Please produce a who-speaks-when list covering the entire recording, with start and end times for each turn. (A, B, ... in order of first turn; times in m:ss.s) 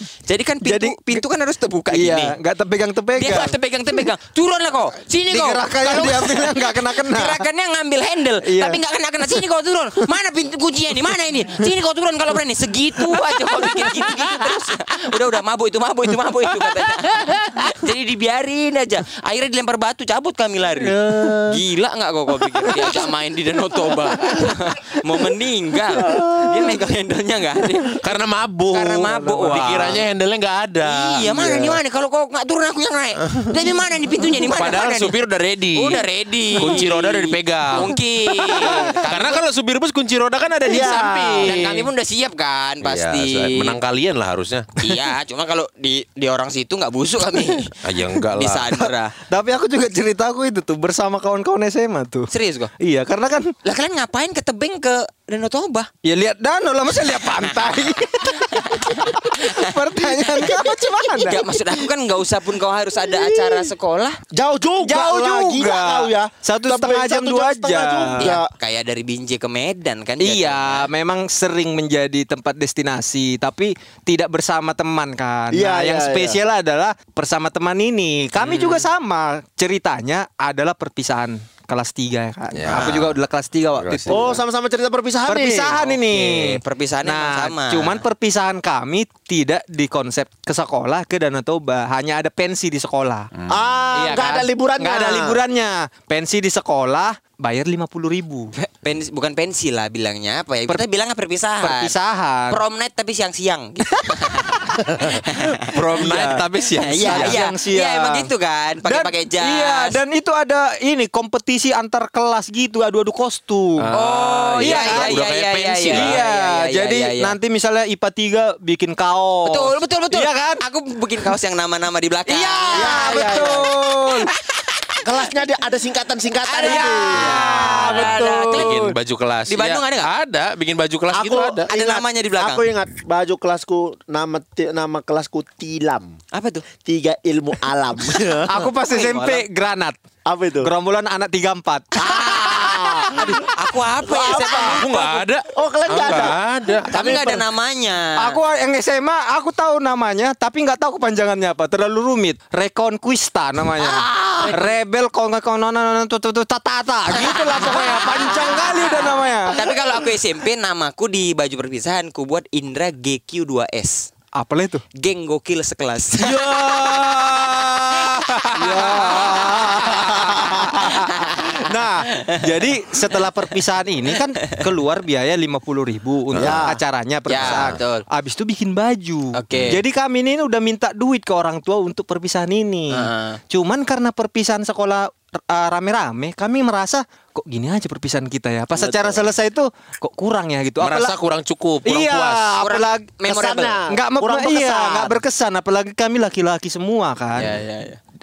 0:00.2-0:02.3 A
0:00.6-0:01.2 B
0:01.9-0:03.5 B
0:03.2-0:28.0 A
0:05.3-0:07.4 B
0:08.4-0:08.8 B
0:20.8-0:21.6 C
0:26.0-0:26.7 C
0:28.0-0:31.6 D
0:28.7-0:30.0 A
0:30.8-0:35.2 A
0:34.3-0:36.0 D
0:35.7-0:39.4 A
0:36.6-0:38.0 D
0:38.5-0:39.0 B
0:38.6-0:41.9 D
0:40.7-0:41.4 C
0:40.7-0:41.5 B
0:41.4-0:43.8 A
0:42.8-0:44.7 D
0:44.8-0:49.1 A
0:47.8-0:48.8 D
0:49.2-0:53.5 B
0:52.3-0:52.7 A
0:53.6-0:55.9 A
0:56.0-1:01.4 B
0:57.2-0:57.8 A
0:58.3-1:04.2 A
1:03.1-1:03.7 C
1:04.3-1:08.5 C
1:04.8-1:08.3 B
1:08.2-1:10.9 A
1:10.2-1:24.4 B
1:15.5-1:16.4 C
1:18.4-1:18.8 A
1:22.5-1:23.2 D
1:23.8-1:24.4 D
1:24.1-1:25.8 C
1:25.2-1:33.3 B
1:25.8-1:28.0 A
1:33.3-1:33.6 D
1:33.5-1:35.4 C
1:33.9-1:38.5 B
1:38.6-1:41.9 A
1:41.6-1:42.6 B
1:42.5-1:50.0 A
1:45.6-1:46.5 D
1:45.9-1:48.3 B
1:47.0-1:47.3 D
1:48.8-1:53.9 B
1:53.8-1:56.2 D
1:53.9-1:57.3 A
1:54.6-1:55.2 B
1:55.9-2:00.6 B
1:59.4-2:03.4 A
2:02.3-2:04.3 B
2:02.7-2:03.7 C
2:04.1-2:05.0 A
2:05.0-2:08.7 C
2:06.4-2:08.9 A
2:06.6-2:08.4 B
2:07.8-2:11.7 D
2:09.5-2:10.1 A
2:11.1-2:16.1 C
2:11.7-2:12.6 A
2:16.3-2:16.6 A
2:16.8-2:18.7 C
2:18.5-2:20.0 B
2:18.6-2:19.4 A
2:20.2-2:20.7 C
2:20.6-2:23.4 B
2:22.0-2:23.5 C
2:22.3-2:22.6 A
2:23.2-2:25.2 A
2:24.0-2:27.4 C
2:24.6-2:26.9 D
2:26.9-2:28.4 A
2:28.2-2:39.6 B
2:33.8-2:34.7 A
2:37.1-2:44.1 A
2:44.4-2:44.8 B
2:45.0-2:47.0 A
2:46.2-3:11.1 B
2:48.0-2:51.6 A
2:56.3-2:56.7 D
2:56.3-2:56.8 C
2:57.3-2:58.0 A
2:57.4-2:57.8 D
2:59.3-2:59.8 A
2:59.5-2:59.8 D
3:02.9-3:03.4 A
3:10.8-3:12.6 D
3:11.8-3:13.1 B
3:12.6-3:13.8 A
3:13.2-3:15.2 C
3:13.9-3:17.5 B
3:17.3-3:18.0 A